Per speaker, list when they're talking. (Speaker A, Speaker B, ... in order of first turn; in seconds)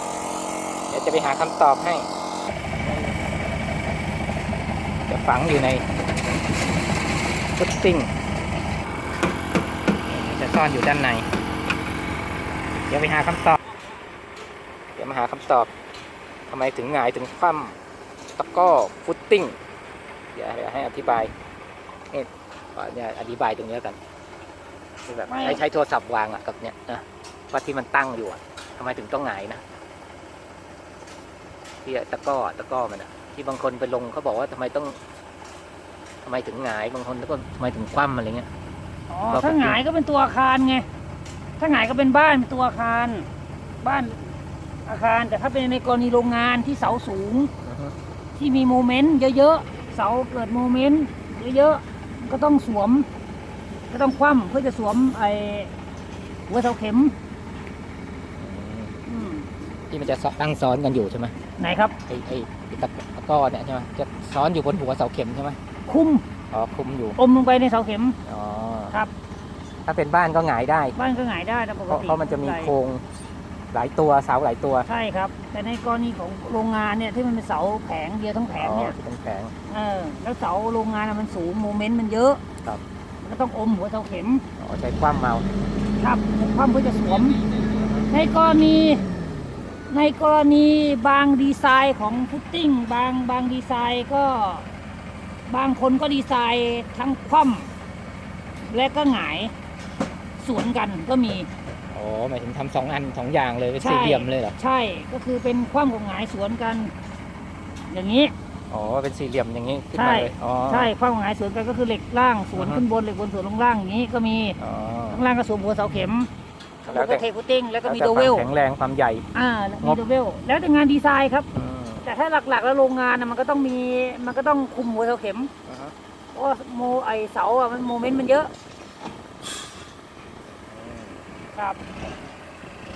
Speaker A: 0.9-2.1, 5.1-5.8, 7.6-8.1, 10.1-11.3, 12.9-13.6, 15.0-15.7, 16.5-17.8, 18.4-19.6, 20.3-21.3, 22.1-24.0, 25.1-29.6, 31.8-35.0, 36.2-38.5, 39.3-39.8, 47.6-47.9, 58.4-59.0, 59.9-61.3, 62.1-65.6, 66.5-67.2, 68.2-69.0, 69.9-71.0, 71.9-73.0, 73.7-74.9, 78.5-79.5, 84.6-85.5, 101.9-104.5, 108.7-110.9, 112.5-112.8, 114.6-115.2, 116.8-117.2, 117.8-119.2, 121.5-122.1, 125.7-125.9, 130.7-131.2
Speaker B: 25.3-25.6, 39.1-40.9, 41.6-43.3, 43.8-44.3, 44.9-47.5, 48.4-53.1, 53.9-55.7, 56.5-57.1, 59.1-59.5, 61.6-62.0, 65.9-66.2, 67.2-68.2, 71.0-72.7, 74.9-79.0, 79.7-82.4, 83.2-84.4, 86.0-87.4, 88.1-89.0, 89.9-94.7, 95.5-97.7, 98.7-99.5, 100.4-101.5, 103.8-106.9, 107.9-108.3, 109.9-114.6, 115.1-116.3, 116.9-118.5, 119.3-121.5, 122.0-125.5, 126.3-128.5